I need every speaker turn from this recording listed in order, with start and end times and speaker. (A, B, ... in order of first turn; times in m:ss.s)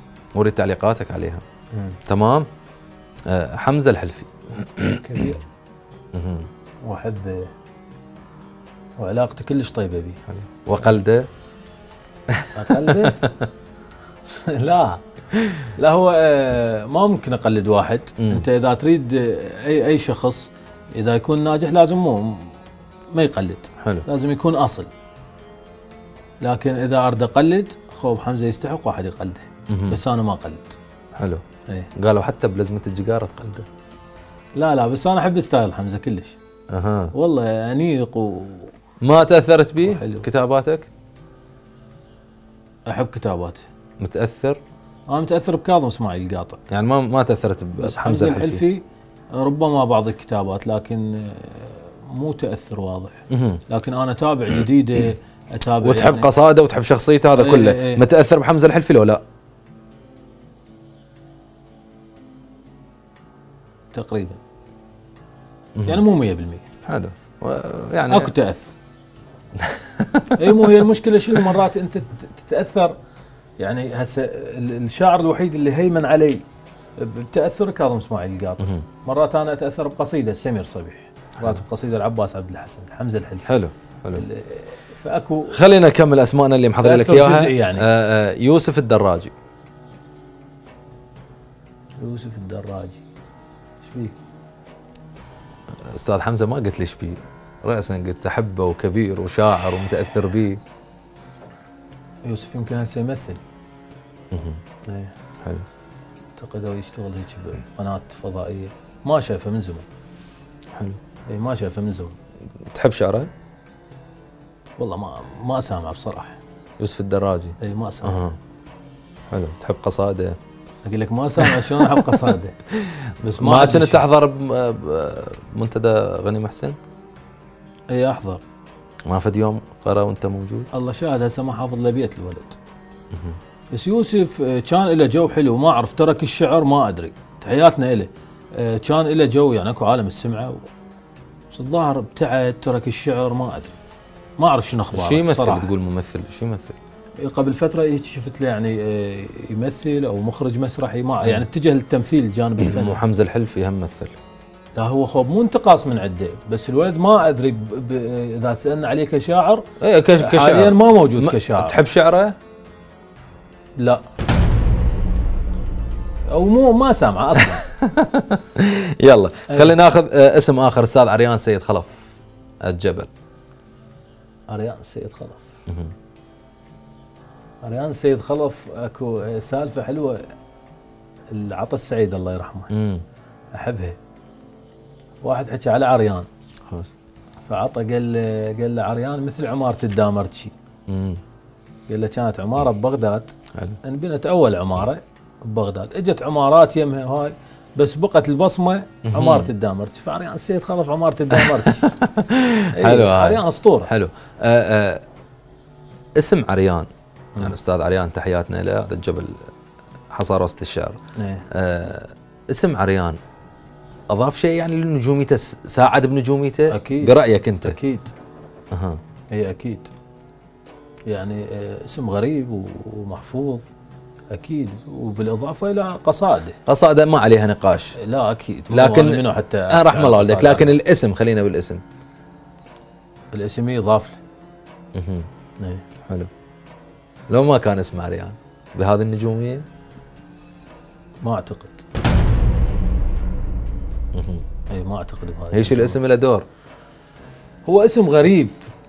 0:00.4-0:01.4 A
0:01.7-0:02.0 B
0:02.1-0:02.5 A
0:03.3-0:05.3 A
0:04.9-0:05.4 B
0:06.1-0:06.5 A
0:06.8-0:07.5 B
0:09.0-0:10.2 B
0:10.3-0:11.3 A
0:12.3-0:13.4 A
0:12.5-0:13.3 B
0:14.3-0:15.0 B
0:15.3-0:15.6 A
0:15.7-0:22.6 B
0:18.2-0:18.4 A
0:23.1-0:24.9 B
0:26.4-0:30.8 B
0:29.7-0:30.0 A
0:31.2-0:31.4 A
0:32.0-0:33.7 A
0:34.6-0:36.4 B
0:36.7-0:37.1 A
0:37.1-0:38.7 B
0:39.0-0:40.9 A
0:39.8-0:40.2 B
0:42.9-0:43.7 B
0:44.0-0:44.6 A
0:45.1-0:46.6 B
0:46.7-0:48.6 A
0:47.8-0:56.3 B
0:53.3-0:53.6 A
0:55.8-0:59.2 A
0:57.3-0:58.0 B
1:03.9-1:04.4 B
1:05.8-1:06.0 A
1:05.8-1:06.7 B
1:06.8-1:08.3 A
1:08.1-1:08.7 B
1:09.6-1:10.8 A
1:10.4-1:12.9 B
1:13.6-1:16.4 B
1:17.0-1:23.5 B
1:18.6-1:18.8 A
1:23.4-1:24.2 A
1:24.1-1:25.6 B
1:25.5-1:29.3 A
1:26.8-1:27.9 B
1:32.0-1:33.0 B
1:33.8-1:34.2 B
1:35.8-1:40.6 A
1:42.2-1:43.4 B
1:44.3-1:44.6 A
1:44.9-1:45.1 B
1:46.4-1:49.8 B
1:51.3-1:52.2 B
1:52.7-1:53.3 A
1:54.8-1:56.4 B
1:56.8-1:58.4 A
1:57.6-1:58.2 B
1:59.3-2:00.4 A
2:00.8-2:02.6 B
2:01.4-2:02.2 A
2:02.7-2:06.8 A
2:03.2-2:04.0 B
2:07.9-2:08.4 B
2:09.1-2:10.7 A
2:10.7-2:12.6 B
2:13.1-2:13.4 A
2:13.7-2:20.7 B
2:21.5-2:23.7 B
2:24.4-2:25.7 B
2:24.9-2:26.8 A
2:27.2-2:33.0 B
2:32.6-2:34.2 A
2:34.8-2:39.6 B
2:39.8-2:42.4 A
2:40.2-2:41.8 B
2:43.8-2:44.0 B
2:46.3-2:47.6 B
2:47.4-2:53.1 A
2:49.5-2:49.7 B
2:54.5-2:55.4 B
2:55.7-2:55.9 A
2:57.6-3:00.2 B
3:01.3-3:02.7 B
3:02.7-3:03.0 A
3:03.5-3:04.0 B
3:05.2-3:06.3 B
3:07.4-3:10.5 B
3:10.9-3:11.2 A
3:11.9-3:21.9 B
3:19.1-3:19.5 A
3:21.3-3:25.0 A
3:22.7-3:23.9 B
3:26.2-3:26.9 A
3:27.4-3:29.5 A
3:30.1-3:31.0 A
3:31.2-3:31.4 B
3:31.5-3:33.2 A
3:34.1-3:37.8 A
3:36.7-3:38.1 B
3:38.7-3:39.0 A
3:39.3-3:39.9 B
3:41.1-3:43.6 B
3:44.3-3:46.6 B
3:46.7-3:48.0 A
3:48.0-3:50.8 B
3:48.7-3:51.8 A
3:53.3-3:54.2 B
3:54.9-3:55.3 A
3:57.3-3:59.7 A
4:01.2-4:01.8 B
4:04.1-4:04.4 A
4:04.7-4:06.0 B
4:05.5-4:06.4 A
4:07.6-4:08.6 B